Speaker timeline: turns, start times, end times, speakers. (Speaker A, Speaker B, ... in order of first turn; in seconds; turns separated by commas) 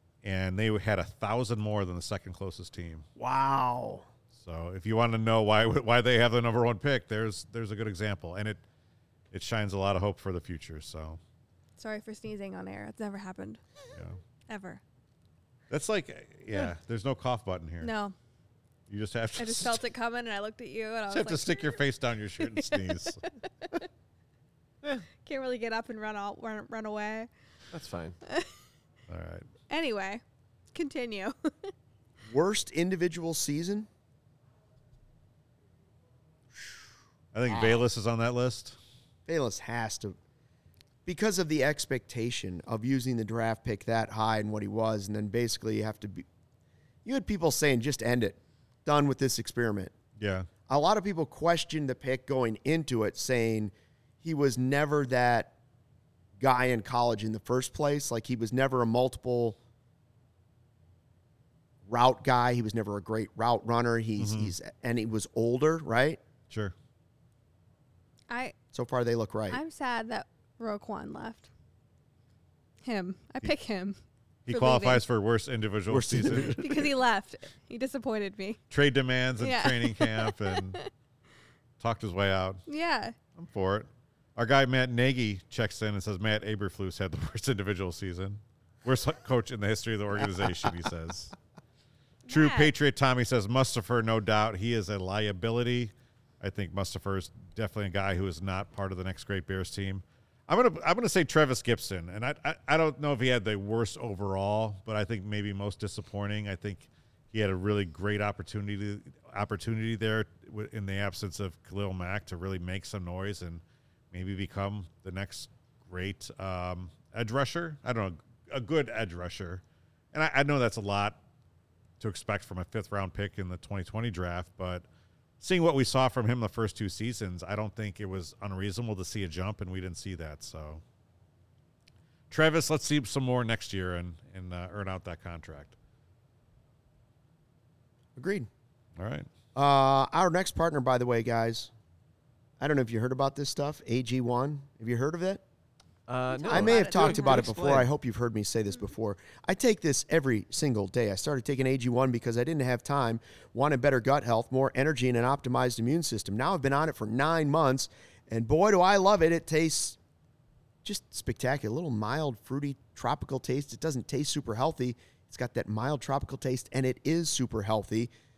Speaker A: 0.2-3.0, Speaker B: 3.2-4.1, Speaker A: 4.3-8.6, Speaker A: 9.3-11.2, Speaker C: 11.8-13.6, Speaker A: 13.9-14.2, Speaker C: 14.5-14.8, Speaker A: 15.7-17.9, Speaker C: 17.8-18.1, Speaker A: 18.9-19.8, Speaker C: 19.4-21.8, Speaker A: 21.1-23.2, Speaker C: 22.4-23.8, Speaker C: 25.2-27.3, Speaker D: 27.7-28.2, Speaker C: 28.3-28.5, Speaker A: 29.1-29.5, Speaker C: 29.7-30.2, Speaker C: 30.7-31.7, Speaker B: 32.3-33.9, Speaker A: 37.3-38.8, Speaker B: 39.3-40.2, Speaker B: 41.1-46.3, Speaker B: 47.0-49.9, Speaker A: 50.2-50.5, Speaker B: 50.7-55.5, Speaker B: 56.4-59.6, Speaker B: 61.9-66.2, Speaker A: 64.2-64.5, Speaker C: 68.3-68.5, Speaker B: 68.7-69.6, Speaker C: 69.5-71.5, Speaker C: 72.8-74.0, Speaker A: 74.5-76.6, Speaker C: 74.5-75.0, Speaker B: 75.9-76.9, Speaker C: 76.6-78.6, Speaker A: 78.7-80.8, Speaker C: 79.4-80.8, Speaker A: 81.8-82.6, Speaker C: 82.7-83.2, Speaker A: 83.4-91.3, Speaker C: 92.3-92.7, Speaker A: 92.3-119.6, Speaker A: 120.1-121.2, Speaker A: 122.0-124.8, Speaker A: 125.4-130.8, Speaker A: 132.3-135.7, Speaker B: 138.2-138.5, Speaker A: 139.0-139.3, Speaker B: 139.6-141.7, Speaker B: 142.6-145.4, Speaker D: 146.1-147.9, Speaker C: 146.3-147.5, Speaker B: 146.5-160.0, Speaker B: 160.8-168.1